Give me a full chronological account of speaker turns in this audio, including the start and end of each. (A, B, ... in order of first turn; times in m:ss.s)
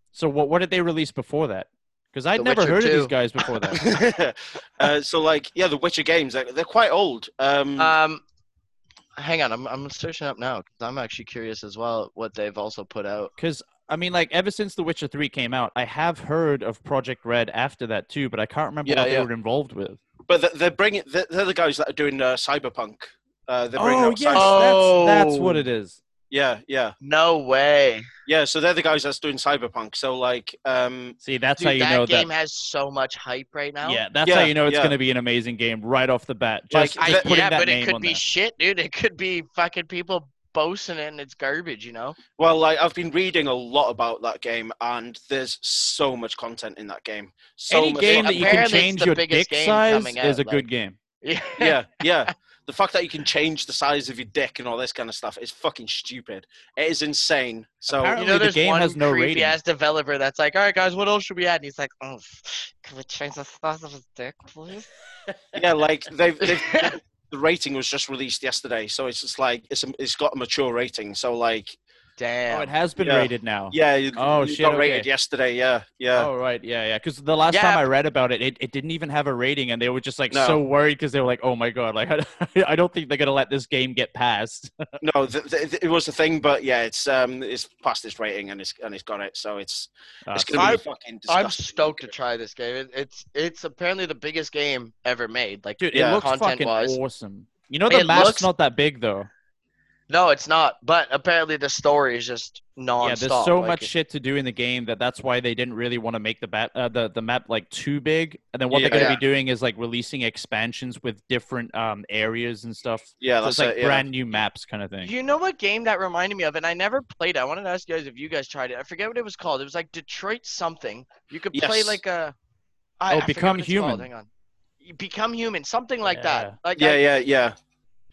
0:00.1-0:03.8 A
0:02.4-0:03.1 B
0:03.7-0:08.0 C
0:07.8-0:08.2 B
0:09.2-0:13.3 B
0:13.4-0:20.0 A
0:18.8-0:19.3 C
0:20.3-0:24.6 C
0:23.8-0:26.0 A
0:24.3-0:25.6 B
0:26.3-0:26.9 C
0:27.0-0:28.1 B
0:28.2-0:31.2 C
0:31.2-0:32.3 A
0:31.6-0:34.0 B
0:33.8-0:38.2 A
0:34.2-0:34.9 C
0:36.7-0:37.3 C
0:37.0-0:42.2 B
0:42.4-0:48.8 C
0:47.7-0:51.0 A
0:48.0-0:50.6 B
0:51.2-0:52.3 B
0:51.6-0:58.2 C
0:57.9-0:59.6 A
0:58.2-1:04.9 B
1:05.5-1:11.8 C
1:06.4-1:07.0 B
1:12.2-1:12.7 B
1:12.5-1:15.1 A
1:13.0-1:16.3 C
1:16.2-1:24.8 A
1:17.5-1:17.8 B
1:20.3-1:20.6 C
1:25.0-1:32.1 C
1:30.3-1:30.8 A
1:30.6-1:37.0 B
1:35.8-1:39.3 A
1:35.9-1:36.2 C
1:37.9-1:38.5 B
1:40.1-1:43.9 B
1:43.0-1:55.1 A
1:48.7-1:49.2 C
1:48.9-1:49.2 B
1:53.2-1:54.1 C
1:55.0-2:02.3 B
2:01.5-2:02.0 C
2:03.0-2:04.3 B
2:03.1-2:04.0 A
2:04.8-2:07.0 B
2:06.1-2:06.5 A
2:06.7-2:07.6 C